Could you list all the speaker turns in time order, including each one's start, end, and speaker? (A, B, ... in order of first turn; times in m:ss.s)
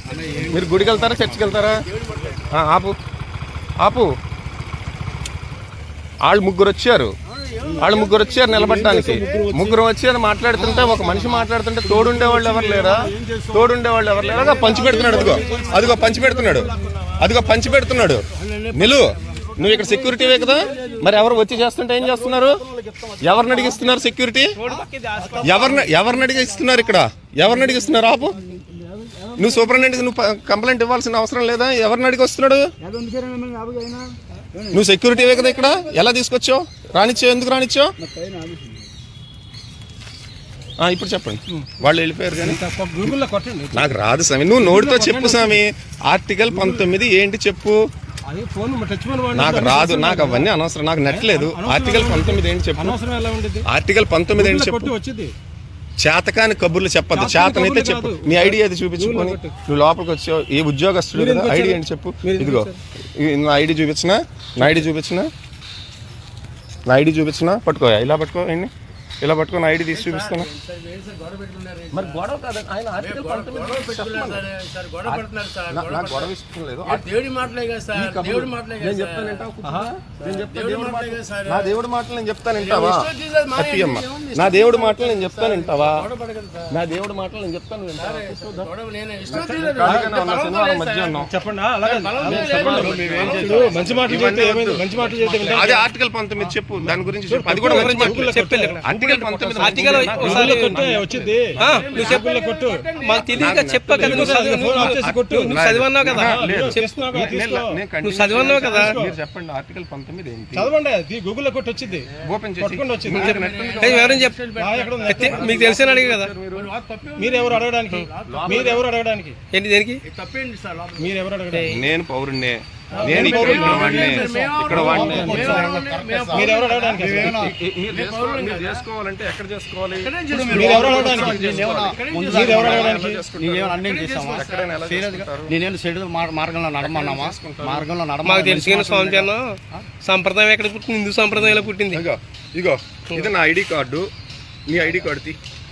0:00.1-0:02.4 A
0:00.1-0:01.7 B
0:00.4-0:01.8 C
0:02.5-0:02.9 C
0:03.8-0:04.1 C
0:06.2-0:07.1 C
0:07.6-0:09.5 A
0:07.8-0:22.6 C
0:08.5-0:09.8 D
0:10.5-0:11.5 B
0:11.9-0:12.9 D
0:13.0-0:13.7 B
0:14.1-0:17.3 D
0:14.2-0:17.1 B
0:14.5-0:16.7 A
0:18.3-0:21.2 A
0:19.5-0:21.4 B
0:22.0-0:24.0 B
0:23.2-0:24.6 C
0:24.6-0:25.9 E
0:25.2-0:26.0 D
0:25.4-0:28.4 C
0:27.6-0:29.6 B
0:29.4-0:32.7 C
0:32.8-0:34.8 B
0:34.7-0:37.9 C
0:38.0-0:38.9 B
0:40.8-0:43.1 C
0:42.4-0:43.9 D
0:43.7-0:47.8 C
0:44.6-0:45.6 D
0:46.5-0:46.9 D
0:48.3-0:50.5 D
0:49.3-0:53.0 C
0:51.0-0:53.6 D
0:53.6-0:54.9 C
0:54.3-0:55.3 D
0:56.0-1:05.3 C
0:57.1-0:59.5 D
1:01.1-1:02.7 D
1:06.8-1:10.5 C
1:09.9-1:12.2 A
1:11.9-1:14.4 C
1:13.0-1:16.3 A
1:15.0-1:17.1 C
1:16.8-1:19.5 A
1:17.9-1:23.0 C
1:19.6-1:19.9 D
1:20.2-1:21.7 A
1:22.6-1:26.7 A
1:23.5-1:26.0 C
1:26.7-1:28.7 C
1:28.0-1:31.2 A
1:29.3-1:31.3 C
1:29.3-1:30.2 D
1:31.3-1:35.7 D
1:31.8-1:34.2 A
1:32.3-1:34.3 B
1:32.4-1:34.8 C
1:34.9-1:36.6 B
1:35.5-1:42.0 C
1:37.3-1:39.0 D
1:37.6-1:40.8 E
1:39.6-1:42.9 D
1:41.6-1:43.5 A
1:41.6-1:42.3 E
1:42.9-1:47.2 E
1:43.4-1:50.7 C
1:43.9-1:45.6 D
1:46.1-1:47.8 D
1:48.0-1:49.0 E
1:48.4-1:49.2 D
1:50.5-1:52.1 D
1:52.2-1:54.2 C
1:52.6-1:53.3 D
1:53.1-1:54.4 E
1:53.1-1:58.8 A
1:54.5-1:55.5 D
1:55.0-1:56.3 E
1:55.3-1:56.7 C
1:57.2-1:59.4 D
1:58.2-1:58.7 C
1:59.5-2:00.0 E
2:00.0-2:01.2 A
2:01.0-2:01.7 D
2:01.5-2:01.8 E
2:01.6-2:05.6 C
2:02.9-2:07.5 D
2:02.9-2:07.3 A
2:04.2-2:07.5 B
2:07.3-2:15.5 C
2:07.9-2:08.8 A
2:10.0-2:13.0 A
2:10.3-2:19.8 B
2:10.4-2:11.5 D
2:12.3-2:13.2 D
2:13.8-2:14.7 A
2:16.8-2:17.9 C
2:18.2-2:22.0 E
2:21.3-2:24.1 C
2:24.7-2:25.4 C